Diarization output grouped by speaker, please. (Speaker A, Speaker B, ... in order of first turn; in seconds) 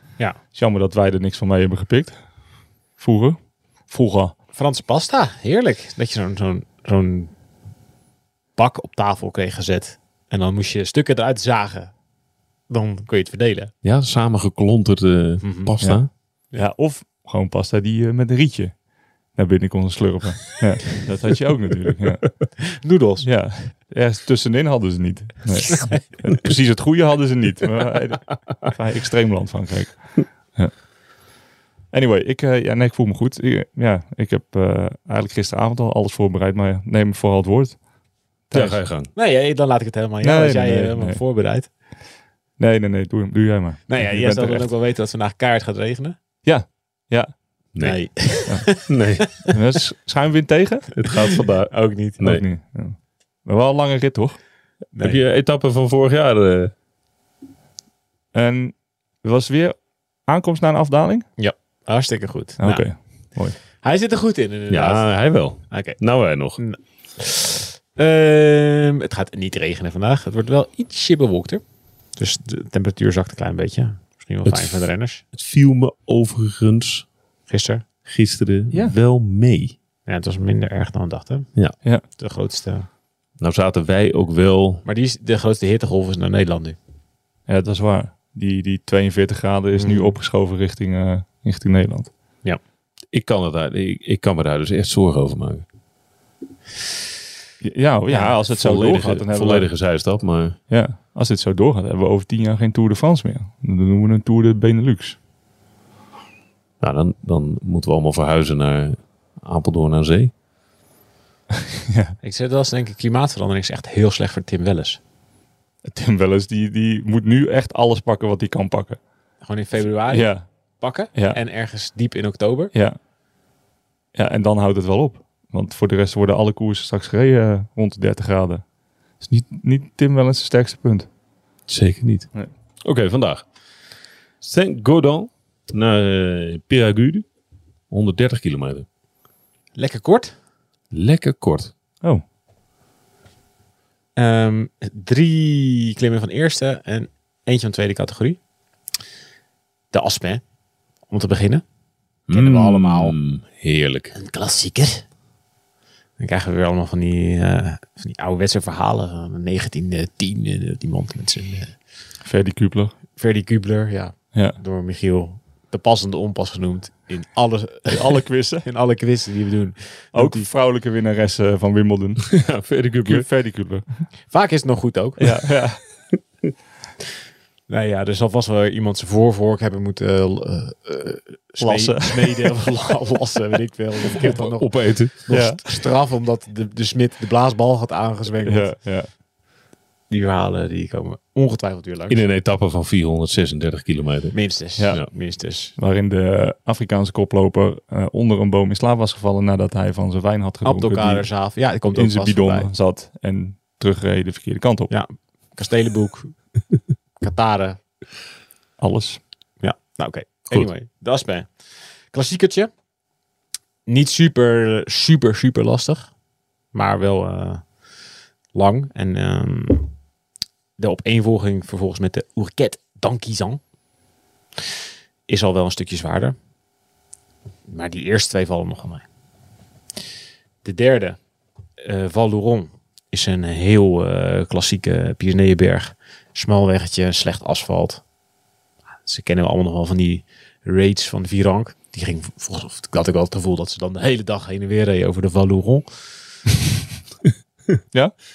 Speaker A: 0.5-2.2, 3.0-3.4, 3.9-4.3, 15.8-18.8, 19.3-22.3, 23.2-30.7, 31.9-37.8, 40.2-41.2, 42.6-44.7, 46.4-47.3, 49.5-51.0, 52.2-54.4, 58.3-61.2, 62.6-63.6, 87.5-92.1, 97.6-99.7, 100.7-105.2, 111.9-112.1, 115.8-119.0, 119.8-120.5, 121.0-121.4, 124.1-128.6, 129.2-131.1, 162.2-162.9, 167.8-168.7, 170.1-174.0, 175.2-175.8, 181.6-182.5, 185.3-185.6, 188.4-189.1, 194.8-195.1, 195.8-201.3, 201.9-204.9, 208.8-209.2
Speaker B: 4.5-7.3, 8.5-11.9, 12.7-13.7, 15.4-15.7, 22.7-23.3, 25.7-26.0, 38.5-41.7, 43.9-46.2, 47.8-49.5, 51.7-52.2, 54.9-55.2, 61.4-62.9, 63.8-65.1, 65.7-66.0, 66.6-71.6, 72.2-75.2, 77.5-77.8, 80.0-81.5, 82.1-82.9, 84.8-86.8, 89.8-90.2, 98.1-98.3, 112.2-115.0, 119.4-122.7, 139.7-140.3, 144.2-148.4, 149.9-150.4, 151.1-151.6, 152.3-153.2, 154.1-155.0, 156.2-161.7, 163.2-170.5, 174.3-175.2, 177.7-188.8, 190.1-192.2, 194.3-195.8, 200.6-202.7, 204.9-206.3, 207.2-207.8, 209.6-211.5, 212.1-212.7, 213.8-216.1, 216.7-217.6, 218.5-219.9, 220.8-223.6, 225.3-226.3, 227.7-229.0, 230.6-231.2, 231.8-238.0, 239.0-246.0
Speaker C: 13.8-16.1, 38.5-39.1, 48.9-49.3, 51.0-52.4, 55.0-56.7, 64.7-66.6, 74.4-77.1, 78.0-79.7, 83.4-84.8, 93.1-95.6, 98.5-100.6, 106.8-110.3, 131.7-132.3, 132.8-133.4, 134.4-137.2, 137.9-138.8, 140.9-141.7, 152.3-154.1, 172.2-173.2, 184.2-185.3, 192.1-194.3